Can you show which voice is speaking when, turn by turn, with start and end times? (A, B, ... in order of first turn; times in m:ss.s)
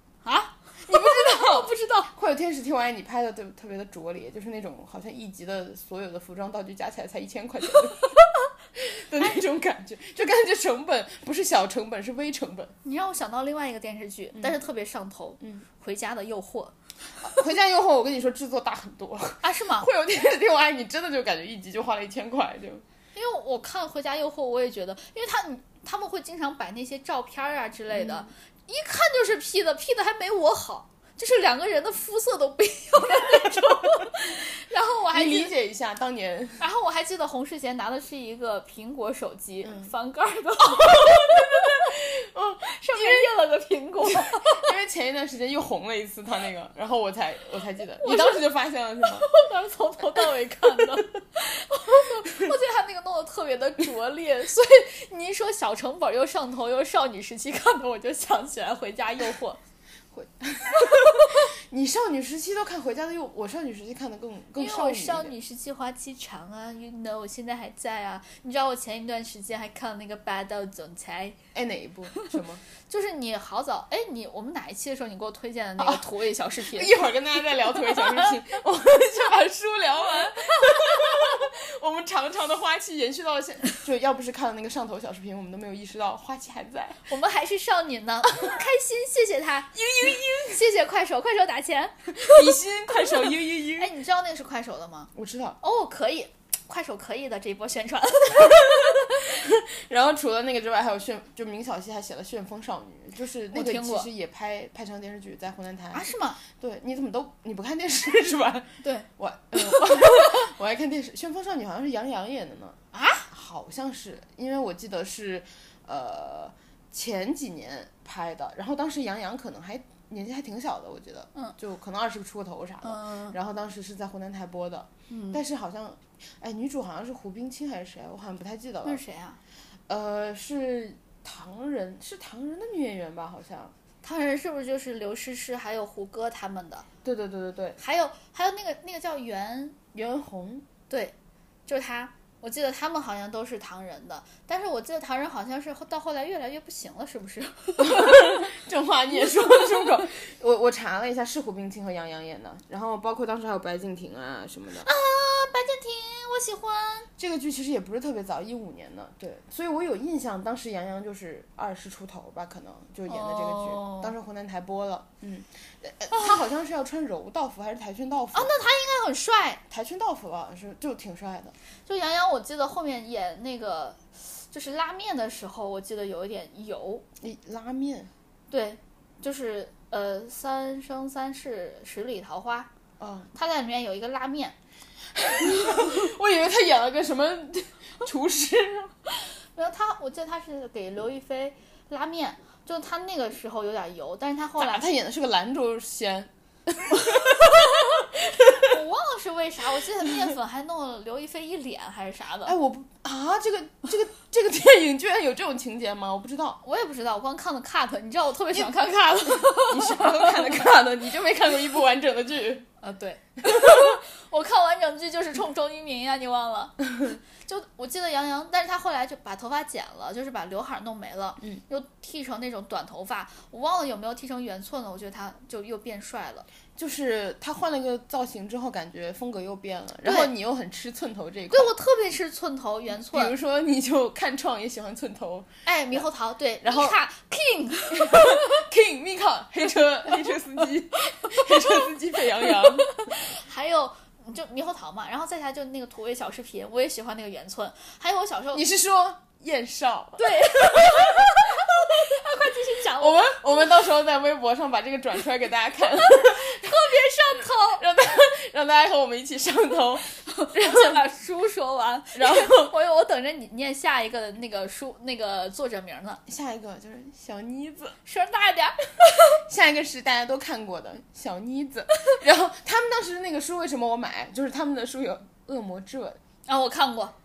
0:00.2-0:02.1 A
0:00.8-0:08.1 B
0:08.7-0:12.7 B
0:12.8-0:16.7 A
0:17.2-0:22.8 B
0:19.4-0:19.9 A
0:23.1-0:35.5 A
0:27.9-0:28.3 B
0:35.1-0:36.6 B
0:36.6-0:41.9 A
0:39.6-0:39.9 B
0:40.8-0:43.3 B
0:42.6-0:44.7 A
0:44.0-0:49.3 B
0:48.0-0:48.4 A
0:49.0-0:59.6 A
1:00.1-1:05.3 B
1:00.8-1:01.4 A
1:04.6-1:11.4 A
1:11.5-1:12.6 B
1:12.9-1:17.0 A
1:15.8-1:16.0 B
1:16.6-1:27.0 B
1:20.5-1:20.9 A
1:27.1-1:39.2 A
1:29.7-1:30.6 B
1:32.2-1:33.9 B
1:35.1-1:35.6 B
1:38.4-1:52.8 B
1:43.5-1:44.1 A
1:45.9-1:46.4 A
1:48.8-1:49.1 A
1:49.8-1:50.0 A
1:52.9-1:53.3 A
1:53.3-2:09.0 B
2:02.8-2:03.4 A
2:05.1-2:05.4 A
2:08.8-2:09.4 A
2:09.9-2:13.7 B
2:14.0-2:16.8 A
2:17.0-2:17.8 B
2:17.8-2:19.8 A
2:19.9-2:20.6 B
2:20.9-2:21.1 A
2:21.7-2:28.5 A
2:27.8-2:34.9 B
2:29.3-2:29.6 A
2:34.8-2:37.1 A
2:37.2-2:48.5 B
2:43.1-2:44.1 A
2:46.1-2:46.4 A
2:48.3-2:49.6 A
2:49.7-2:51.5 B
2:51.8-2:57.0 A
2:57.2-2:58.1 B
2:58.5-3:02.7 A
3:03.0-3:03.3 B
3:03.3-3:04.6 A
3:05.1-3:08.9 B
3:05.7-3:05.9 A
3:09.2-3:14.8 A
3:14.6-3:18.8 B
3:18.4-3:22.6 A
3:22.4-3:26.6 B
3:26.6-3:30.7 A
3:29.2-3:32.7 B
3:32.8-3:46.4 A
3:33.4-3:34.0 B
3:46.8-3:51.7 B
3:50.0-3:50.3 A
3:51.5-3:53.3 A
3:52.9-3:56.0 B
3:55.6-3:58.6 A
3:56.6-3:57.0 B
3:57.9-4:02.9 B
4:01.2-4:01.8 A
4:02.4-4:08.6 A
4:08.5-4:11.8 B
4:10.2-4:13.7 A
4:12.9-4:21.0 B
4:15.9-4:17.8 A
4:20.2-4:26.2 A
4:22.1-4:22.7 B
4:26.3-4:28.0 B
4:28.0-4:29.4 A
4:29.3-4:36.2 B
4:36.5-4:37.1 A